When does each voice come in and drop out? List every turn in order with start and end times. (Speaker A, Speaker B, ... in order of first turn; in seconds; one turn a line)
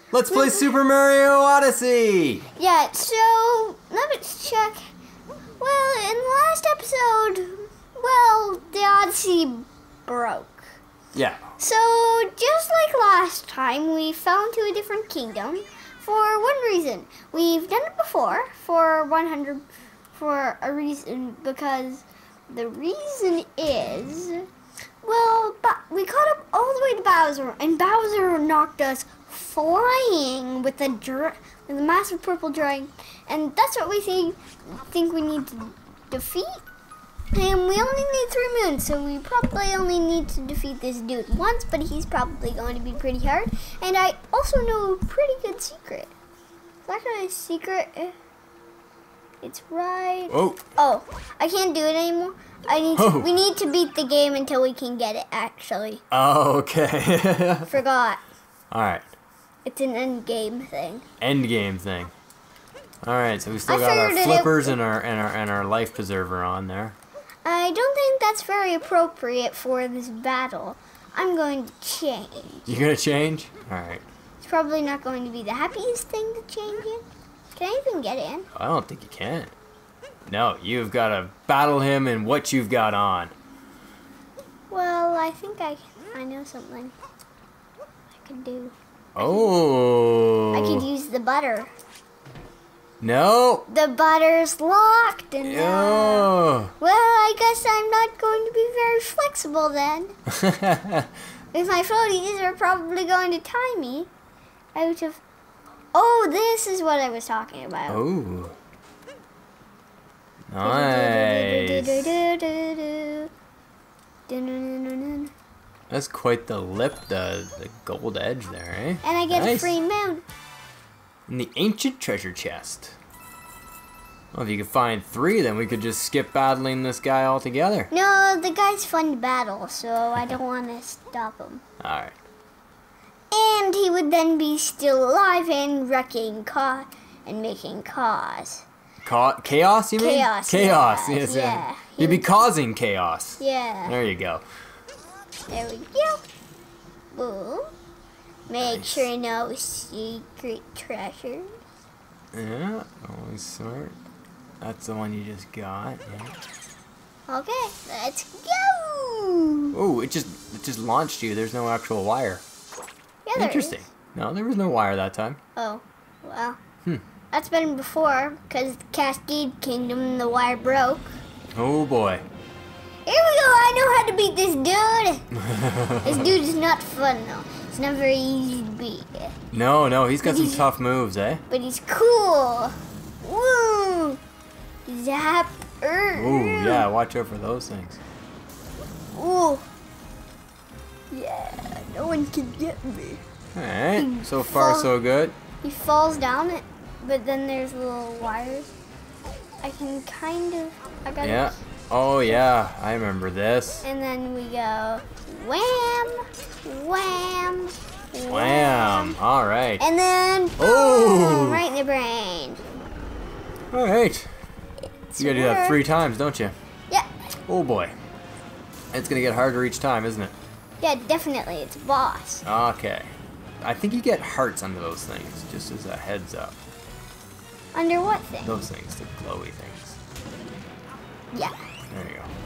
Speaker A: 0.1-2.5
Speaker B: 0.3-0.7
Speaker B: 2.6-4.9
Speaker B: 5.6-10.7
Speaker A: 11.1-11.4
Speaker B: 11.6-24.5
Speaker B: 25.0-36.6
Speaker B: 37.3-46.1
Speaker B: 46.9-48.1
Speaker B: 49.4-56.0
Speaker A: 50.3-50.6
Speaker A: 53.0-53.4
Speaker A: 56.1-57.7
Speaker B: 57.7-58.2
Speaker A: 58.7-59.1
Speaker B: 59.6-61.0
Speaker A: 61.2-62.1
Speaker A: 63.0-67.0
Speaker B: 63.7-64.8
Speaker B: 67.5-72.7
Speaker A: 72.7-74.0
Speaker B: 74.4-78.5
Speaker A: 78.5-79.5
Speaker A: 80.3-83.3
Speaker B: 84.7-86.9
Speaker B: 88.2-89.5
Speaker A: 89.2-90.9
Speaker B: 90.5-91.7
Speaker A: 93.0-93.7
Speaker B: 93.7-100.1
Speaker A: 95.4-96.7
Speaker A: 100.3-101.1
Speaker B: 101.5-104.1
Speaker B: 104.8-105.2
Speaker B: 105.9-108.0
Speaker A: 107.9-108.5
Speaker A: 110.5-112.1
Speaker B: 110.6-113.3
Speaker B: 114.3-115.3
Speaker A: 115.9-119.7
Speaker B: 119.0-120.2
Speaker A: 121.3-123.0
Speaker A: 124.3-127.9
Speaker B: 127.9-131.6
Speaker A: 131.8-132.2
Speaker B: 133.3-138.7
Speaker A: 139.0-144.4
Speaker B: 140.0-142.3
Speaker B: 143.4-144.0
Speaker B: 145.5-146.2
Speaker B: 147.1-147.7
Speaker B: 148.5-151.5
Speaker A: 148.6-149.1
Speaker A: 152.3-154.0
Speaker A: 154.6-156.4
Speaker B: 157.3-159.8
Speaker A: 159.7-162.4
Speaker B: 163.2-163.8
Speaker A: 163.4-165.4
Speaker B: 165.6-166.6
Speaker B: 167.3-171.2
Speaker A: 171.6-172.2
Speaker B: 173.1-175.3
Speaker A: 175.3-176.4
Speaker B: 176.0-179.3
Speaker A: 179.5-181.4
Speaker B: 180.2-180.7
Speaker B: 181.5-184.2
Speaker B: 184.9-186.9
Speaker A: 186.2-188.0
Speaker B: 189.1-189.7
Speaker B: 191.1-193.2
Speaker A: 193.6-195.4
Speaker B: 194.0-194.9
Speaker B: 195.6-198.7
Speaker B: 199.6-201.6
Speaker A: 201.2-203.8
Speaker B: 203.8-209.2
Speaker A: 208.3-209.8
Speaker B: 209.8-212.6
Speaker A: 210.6-211.6
Speaker A: 213.7-214.3
Speaker B: 215.1-215.8
Speaker A: 215.2-216.6
Speaker A: 217.5-217.9
Speaker A: 218.9-220.3
Speaker B: 220.8-222.4
Speaker A: 222.4-226.6
Speaker B: 227.7-228.6
Speaker A: 228.4-230.0
Speaker B: 231.3-231.6
Speaker A: 231.9-232.3